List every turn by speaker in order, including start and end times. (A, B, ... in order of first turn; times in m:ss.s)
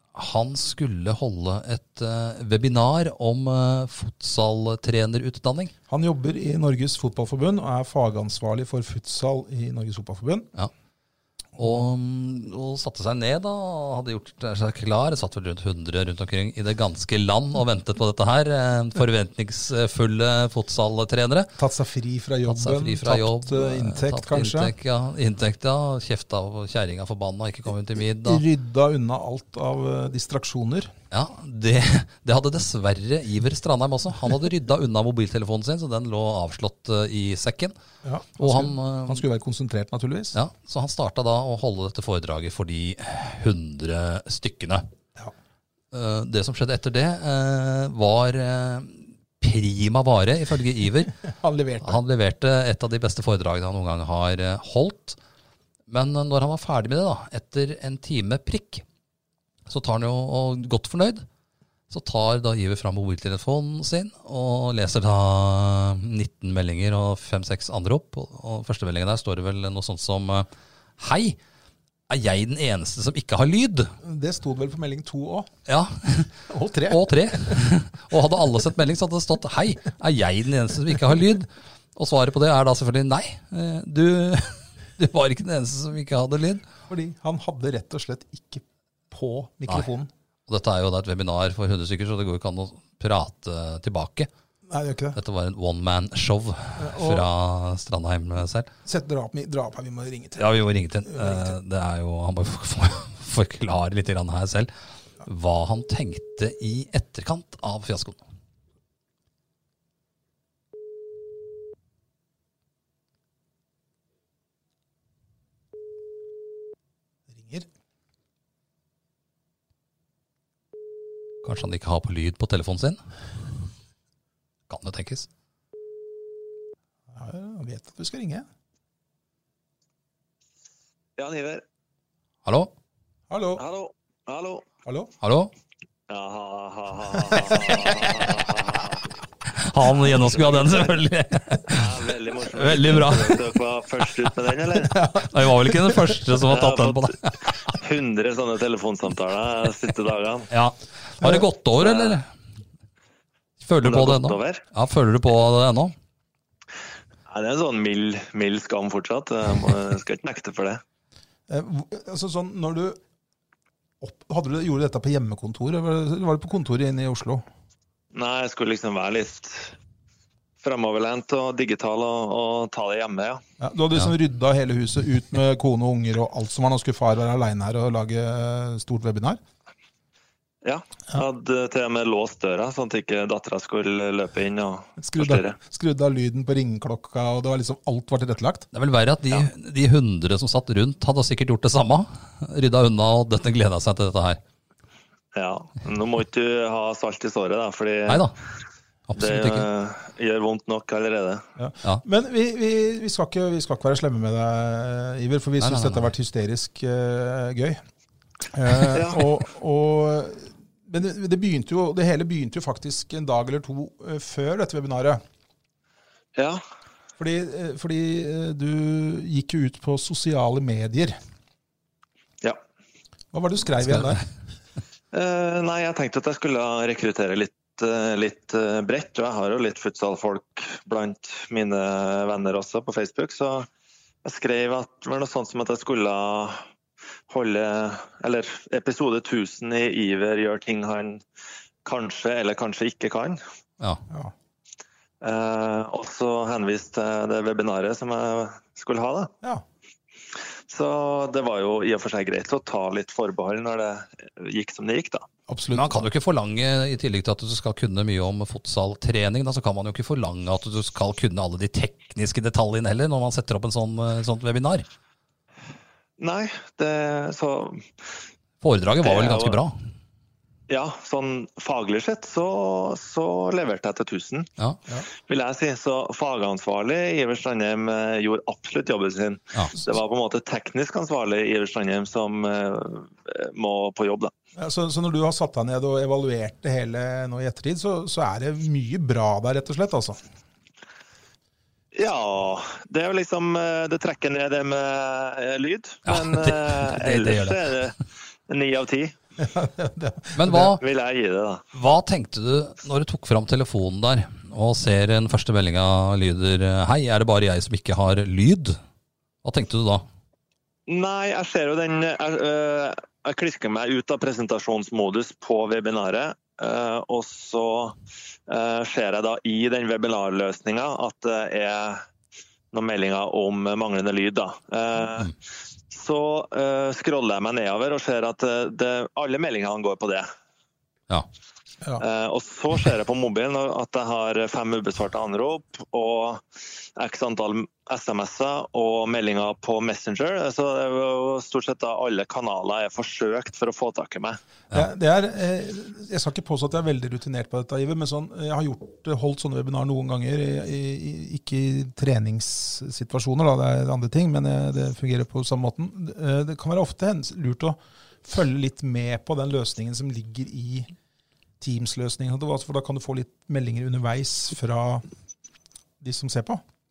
0:00.1-0:05.7 A
0:05.9-0:10.5 B
0:11.6-0:21.6 A
0:21.6-0:24.7 B
0:22.5-0:28.4 A
0:28.0-0:30.9 B
0:31.1-0:37.8 A
0:38.0-0:40.4 B
0:38.4-0:39.2 A
0:40.3-0:44.9 A
0:45.9-0:51.2 A
0:51.2-0:52.0 B
0:51.8-0:55.2 A
0:55.9-0:58.8 A
0:59.7-1:01.3 A
1:01.9-1:11.4 A
1:12.1-1:14.0 A
1:14.0-1:15.5 B
1:15.7-1:16.4 A
1:16.5-1:17.7 B
1:16.9-1:26.6 A
1:26.9-1:30.1 B
1:30.5-1:34.3 A
1:34.7-1:35.2 B
1:35.2-1:38.7 A
1:36.8-1:37.3 B
1:38.8-1:40.5 B
1:40.4-1:44.7 A
1:41.1-1:41.6 B
1:45.2-1:48.2 A
1:57.3-1:57.7 B
2:01.4-2:03.0 A
2:04.7-2:05.3 A
2:07.1-2:08.4 B
2:11.2-2:11.6 C
2:12.4-2:12.7 A
2:13.3-2:13.6 B
2:13.6-2:14.7 C
2:14.8-2:15.1 B
2:15.2-2:15.5 A
2:16.1-2:19.1 C
2:19.5-2:22.0 A
2:20.0-2:20.9 C
2:21.7-2:25.0 C
2:22.5-2:23.4 A
2:24.8-2:26.3 B
2:25.2-2:27.7 A
2:26.4-2:30.5 C
2:30.5-2:32.3 A
2:31.2-2:31.5 B
2:31.8-2:32.2 C
2:33.6-2:36.0 A
2:33.8-2:34.6 C
2:37.3-2:40.8 C
2:41.5-2:43.0 B
2:44.0-2:47.4 B
2:48.1-2:49.8 C
2:50.6-2:53.4 C
2:53.6-2:59.4 B
3:00.6-3:05.6 C
3:05.0-3:08.7 B
3:08.7-3:14.4 A
3:15.3-3:18.3 C
3:18.1-3:18.3 A
3:19.1-3:19.7 A
3:19.2-3:21.4 C
3:21.6-3:27.8 B
3:25.6-3:26.1 A
3:28.5-3:35.2 B
3:28.9-3:29.2 C
3:36.4-3:36.6 C
3:37.2-3:41.2 B
3:43.3-3:44.2 B
3:45.1-3:53.7 C
3:54.2-3:56.6 C
3:57.3-4:01.2 C
4:01.8-4:03.4 C
4:05.2-4:09.3 C
4:10.7-4:15.3 C
4:15.5-4:16.1 B
4:15.7-4:24.9 A
4:26.2-4:28.1 C
4:28.6-4:29.8 A
4:29.0-4:29.6 C
4:30.7-4:34.5 C
4:35.3-4:44.3 C
4:44.6-4:50.2 B
4:52.0-4:59.1 C
4:56.1-4:57.6 A
4:59.4-5:00.8 B
5:00.4-5:00.8 A
5:00.5-5:01.6 C
5:01.7-5:08.8 A
5:09.4-5:10.0 A
5:10.9-5:18.0 C
5:18.5-5:22.0 C
5:22.7-5:25.4 C
5:25.9-5:30.3 C
5:32.0-5:44.4 C
5:44.7-6:00.9 B
6:01.6-6:05.0 B
6:06.0-6:06.6 B